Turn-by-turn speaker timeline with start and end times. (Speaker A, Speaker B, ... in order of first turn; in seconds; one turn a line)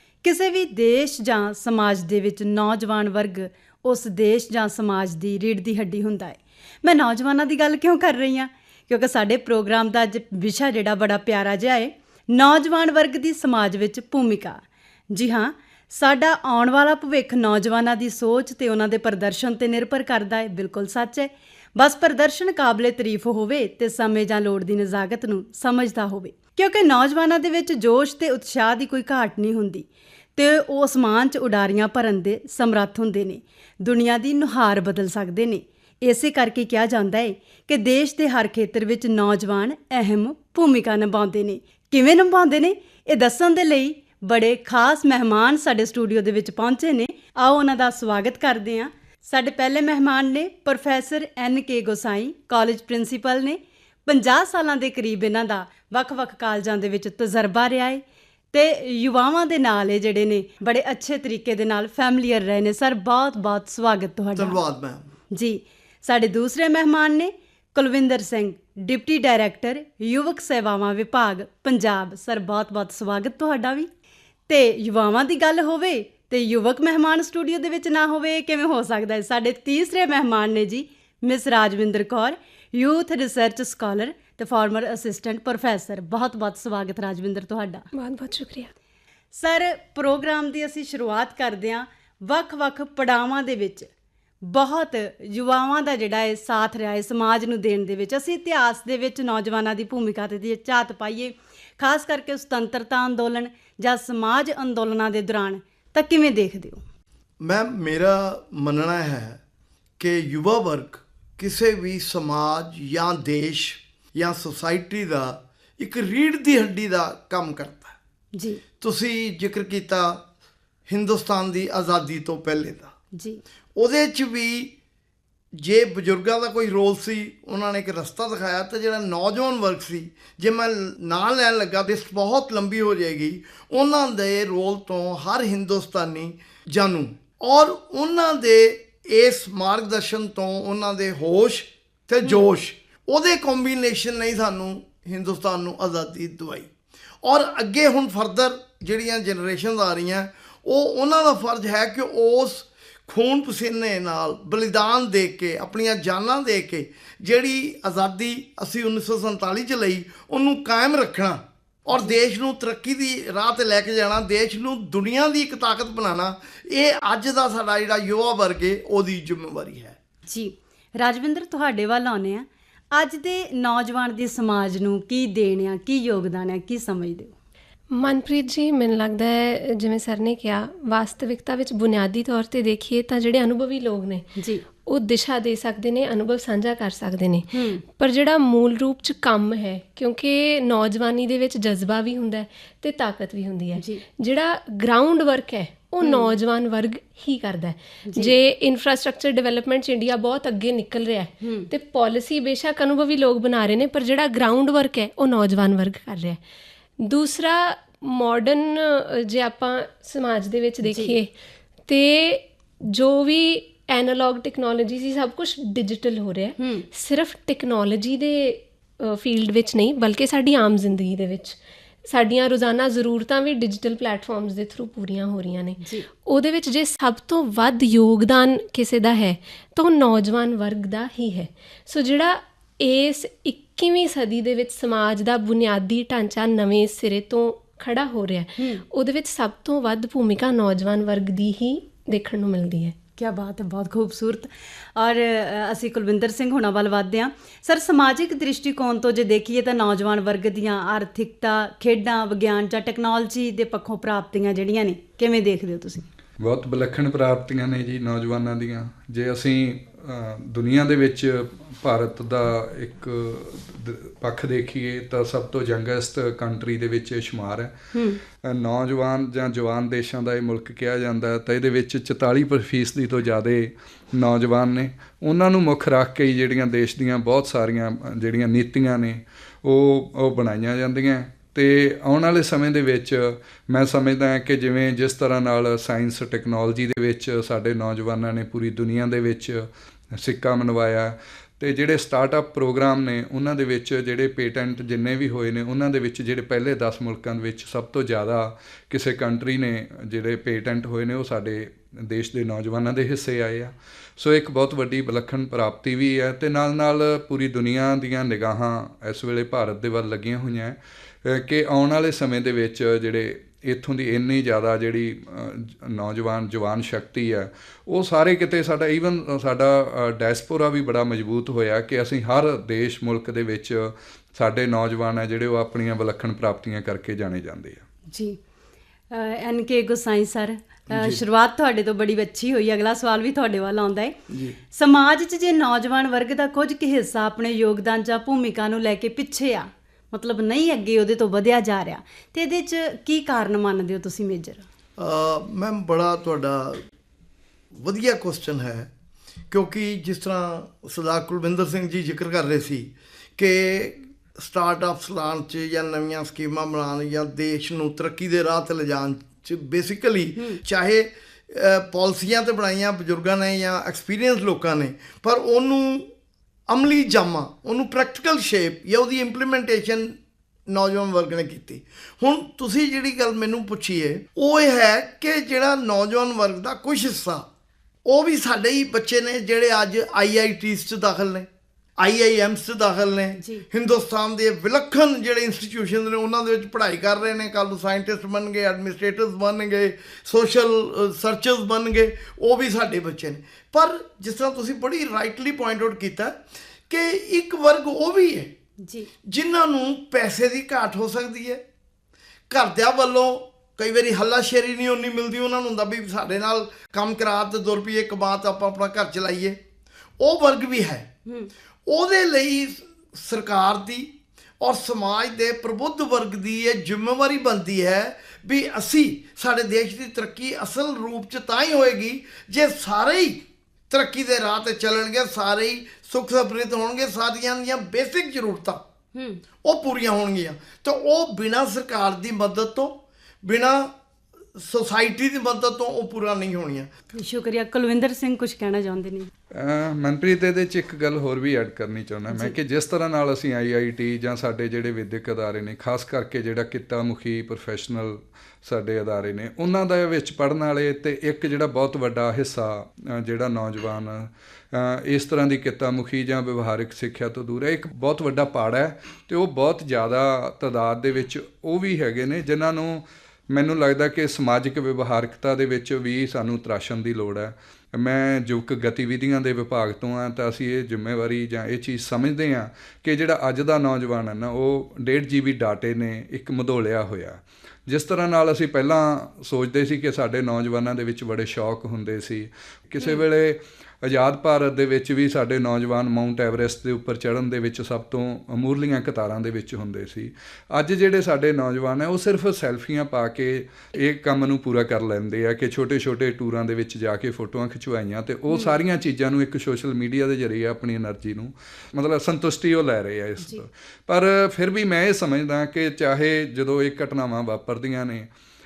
Speaker A: 0.2-58.0
Speaker A: 58.5-64.6
Speaker B: 64.3-65.1
Speaker A: 65.3-73.9
Speaker A: 74.5-87.8
Speaker C: 87.9-88.7
Speaker A: 89.3-93.9
Speaker A: 94.4-106.8
Speaker B: 107.4-109.4
Speaker B: 110.0-118.0
Speaker A: 118.3-118.6
Speaker B: 118.8-120.2
Speaker B: 120.9-122.9
Speaker A: 123.1-123.4
Speaker B: 123.8-124.7
Speaker B: 125.6-146.7
Speaker B: 147.2-169.9
Speaker A: 170.3-177.3
Speaker C: 177.9-184.3
Speaker A: 184.4-184.6
Speaker C: 184.8-206.4
Speaker A: 187.5-187.8
Speaker A: 193.8-194.0
Speaker A: 196.0-196.3
Speaker A: 198.1-198.3
Speaker A: 201.4-201.7
Speaker C: 207.0-211.3
Speaker A: 210.8-211.1
Speaker C: 211.9-242.9
Speaker A: 216.6-216.8
Speaker A: 225.8-226.1
Speaker A: 238.6-238.8
Speaker A: 243.2-256.1
Speaker D: 256.4-267.7
Speaker A: 267.9-268.2
Speaker D: 268.3-327.8
Speaker A: 328.1-328.4
Speaker A: 329.1-334.2
Speaker B: 330.9-331.2
Speaker B: 334.3-334.6
Speaker A: 334.7-344.6
Speaker B: 345.0-346.8
Speaker B: 347.8-348.9
Speaker B: 349.5-366.1
Speaker A: 360.4-360.6
Speaker B: 366.7-370.2
Speaker B: 370.7-377.4
Speaker B: 378.0-398.5
Speaker A: 398.8-399.1
Speaker B: 399.2-401.6
Speaker B: 402.5-409.6
Speaker B: 410.2-411.1
Speaker B: 411.9-428.8
Speaker A: 429.1-429.4
Speaker B: 429.6-433.9
Speaker B: 434.6-436.9
Speaker A: 437.1-439.3
Speaker D: 439.5-508.3
Speaker A: 442.3-442.5
Speaker A: 498.5-498.8